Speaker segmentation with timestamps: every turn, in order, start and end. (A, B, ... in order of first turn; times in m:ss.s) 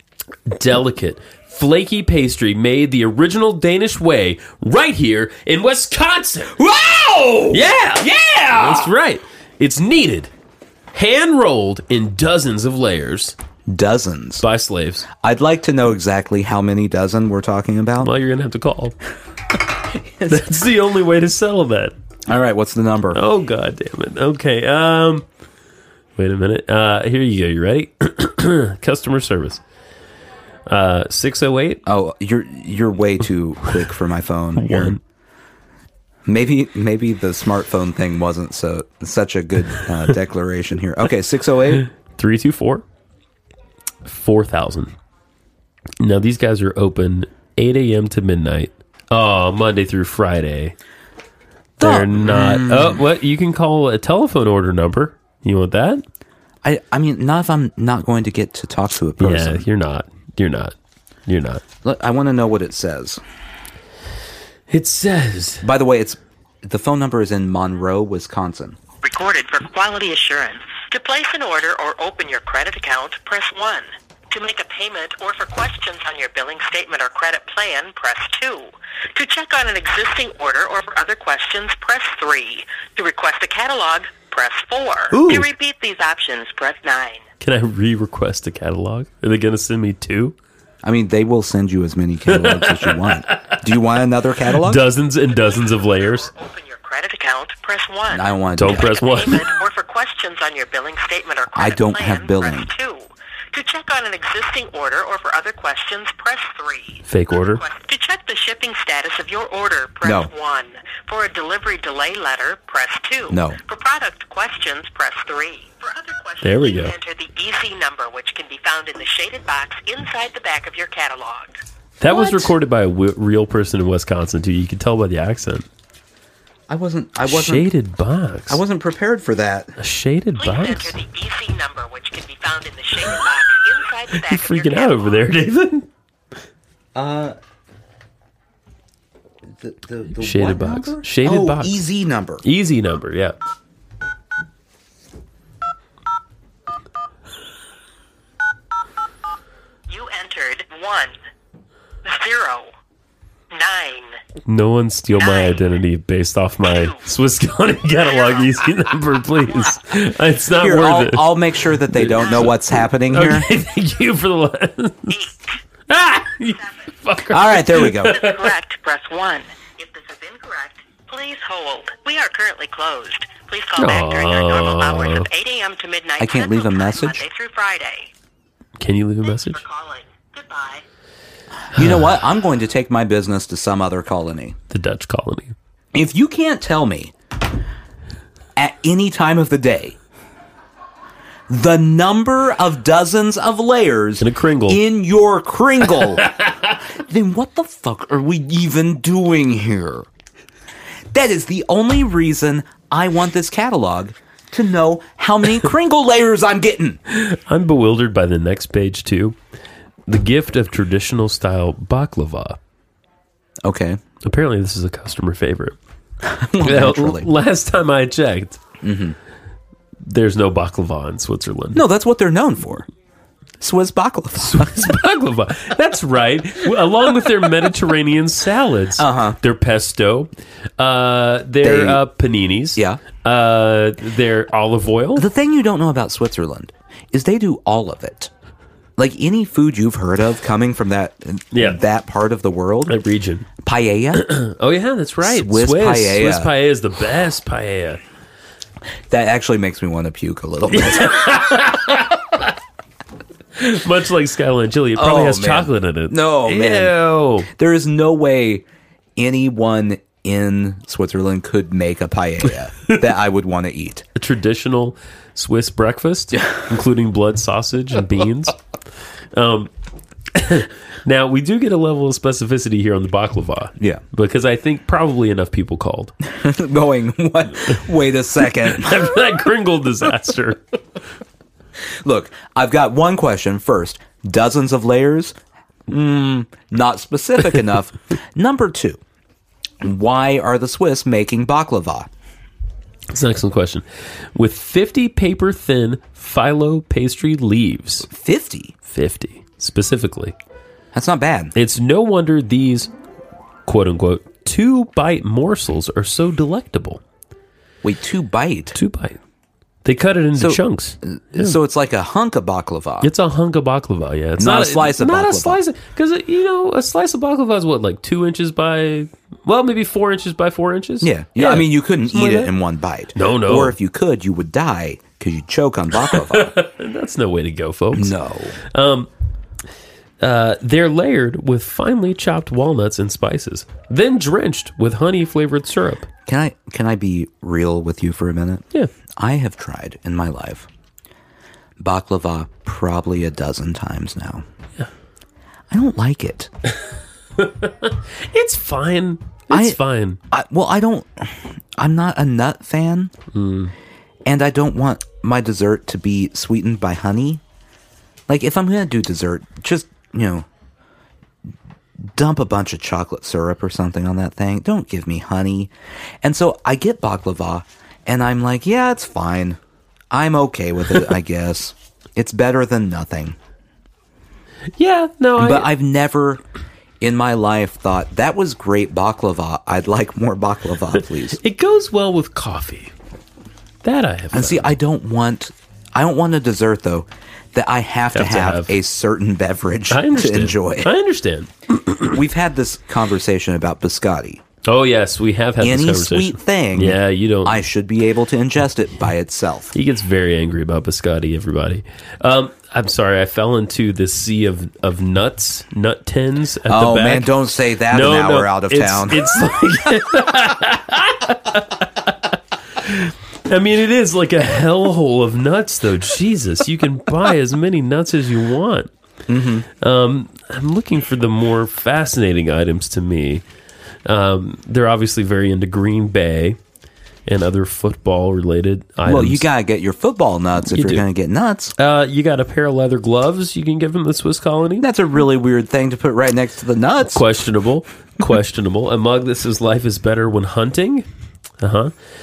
0:00.5-0:06.6 A
0:06.6-0:08.9 B
0:07.5-0:10.3 A
0:10.9-0:13.4 A
0:13.7-0:14.4 B
0:14.4-0:15.1 A
0:15.1-0:18.1 B
0:18.0-0:19.0 A
0:20.1-0:20.4 B
0:20.2-0:21.9 A
0:22.3-0:23.2 B
0:23.1-0:25.2 A
0:26.2-0:29.6 A
0:30.6-0:31.8 A
0:31.8-0:35.0 B
0:34.6-0:35.0 A
0:36.2-0:41.9 B
0:41.9-0:42.8 A
0:44.0-0:44.9 A
0:46.0-0:50.7 A
0:51.8-0:53.0 B
0:51.8-0:56.0 A
0:56.6-0:59.6 B
0:59.2-1:00.8 A
1:01.3-1:01.6 A
1:01.8-1:03.2 B
1:04.7-1:05.6 A
1:05.6-1:08.8 B
1:09.0-1:27.2 C
1:25.1-1:25.4 B
1:25.2-1:25.4 A
1:27.4-1:30.4 A
1:30.8-1:34.8 B
1:32.3-1:33.6 A
1:34.5-1:36.3 A
1:35.3-2:01.6 C
1:38.1-1:39.0 B
1:38.6-1:39.5 A
1:41.5-1:42.7 B
1:47.0-1:47.6 A
1:50.0-1:50.3 B
1:53.3-1:53.6 B
1:56.4-1:56.9 A
2:02.0-2:05.7 A
2:02.0-2:02.5 B
2:06.7-2:07.7 B
2:07.2-2:08.6 A
2:08.5-2:09.8 B
2:09.8-2:11.0 A
2:10.4-2:15.2 C
2:14.1-2:15.9 A
2:16.9-2:17.4 B
2:19.6-2:22.4 B
2:20.2-2:21.8 A
2:22.4-2:23.4 A
2:29.9-2:31.1 C
2:32.0-2:32.7 C
2:33.5-2:34.2 C
2:34.4-2:45.2 A
2:35.2-2:35.6 C
2:36.6-2:37.0 C
2:38.0-2:38.6 C
2:40.6-2:43.5 B
2:42.2-2:42.5 C
2:45.1-2:45.6 C
2:45.9-2:48.6 A
2:46.6-2:46.9 C
2:47.3-2:48.2 B
2:48.0-2:58.1 C
2:53.8-2:55.3 A
2:56.2-2:57.2 B
2:58.8-2:59.6 A
2:59.2-3:00.8 C
3:01.7-3:04.6 B
3:01.8-3:02.0 A
3:04.7-3:05.5 A
3:05.9-3:07.1 B
3:08.6-3:10.0 B
3:11.5-3:20.1 B
3:14.2-3:14.8 A
3:16.0-3:16.4 A
3:21.1-3:27.0 B
3:27.1-3:29.4 A
3:30.1-3:32.6 A
3:33.6-3:34.0 B
3:34.2-3:35.8 A
3:36.2-3:37.3 B
3:36.6-3:38.6 A
3:38.8-3:39.2 B
3:40.0-3:41.8 A
3:41.7-3:42.9 B
3:43.6-3:44.8 B
3:44.4-3:55.2 A
3:49.0-3:49.4 B
3:51.6-3:52.0 B
3:52.8-3:53.0 B
3:55.2-3:58.3 B
3:59.0-4:03.0 B
4:01.5-4:01.8 A
4:02.9-4:03.5 A
4:03.6-4:04.3 B
4:04.1-4:08.0 A
4:05.2-4:06.5 B
4:09.1-4:11.3 B
4:10.7-4:12.5 A
4:13.5-4:17.5 A
4:14.9-4:17.0 B
4:17.5-4:18.6 B
4:19.2-4:24.0 B
4:24.2-4:28.6 A
4:29.3-4:29.7 A
4:30.3-4:36.1 A
4:36.2-4:39.0 B
4:38.6-4:40.6 A
4:42.0-4:45.3 B
4:45.9-4:49.0 B
4:49.8-4:52.1 B
4:53.1-4:58.1 A
4:58.1-4:58.7 B
4:58.8-5:00.4 A
5:00.9-5:01.5 B
5:01.5-5:02.9 A
5:03.6-5:07.0 A
5:07.8-5:08.8 B
5:08.7-5:09.2 A
5:09.8-5:11.6 A
5:10.4-5:13.1 B
5:13.0-5:22.5 A
5:14.4-5:15.6 B
5:21.0-5:26.6 B
5:23.1-5:23.8 A
5:26.0-5:29.1 A
5:27.9-5:28.6 B
5:30.2-5:36.1 A
5:36.2-5:38.6 B
5:39.2-5:40.7 B
5:41.8-5:44.4 B
5:45.7-5:46.5 B
5:47.4-5:50.2 A
5:49.5-5:49.8 B
5:50.3-5:53.1 B
5:53.3-5:53.7 A
5:54.2-5:57.4 B
5:58.3-6:00.4 B
6:02.1-6:05.7 B
6:06.2-6:09.6 B
6:10.1-6:13.4 B
6:14.8-6:15.7 A
6:15.4-6:16.4 B
6:17.0-6:21.4 B
6:21.3-6:22.9 A
6:23.8-6:24.8 A
6:24.3-6:30.9 B
6:28.1-6:28.8 A
6:29.9-6:32.2 A
6:32.1-6:34.4 B
6:34.6-6:37.6 A
6:35.6-6:39.7 B
6:39.7-6:47.4 A
6:46.7-6:49.3 B
6:47.9-6:58.9 A
6:59.3-6:59.7 B
6:59.7-7:03.4 A
7:04.0-7:06.6 A
7:07.2-7:09.4 A
7:09.0-7:11.7 B
7:10.7-7:11.1 A
7:11.8-7:14.8 A
7:14.8-7:17.2 B
7:17.0-7:21.0 A
7:21.6-7:21.9 A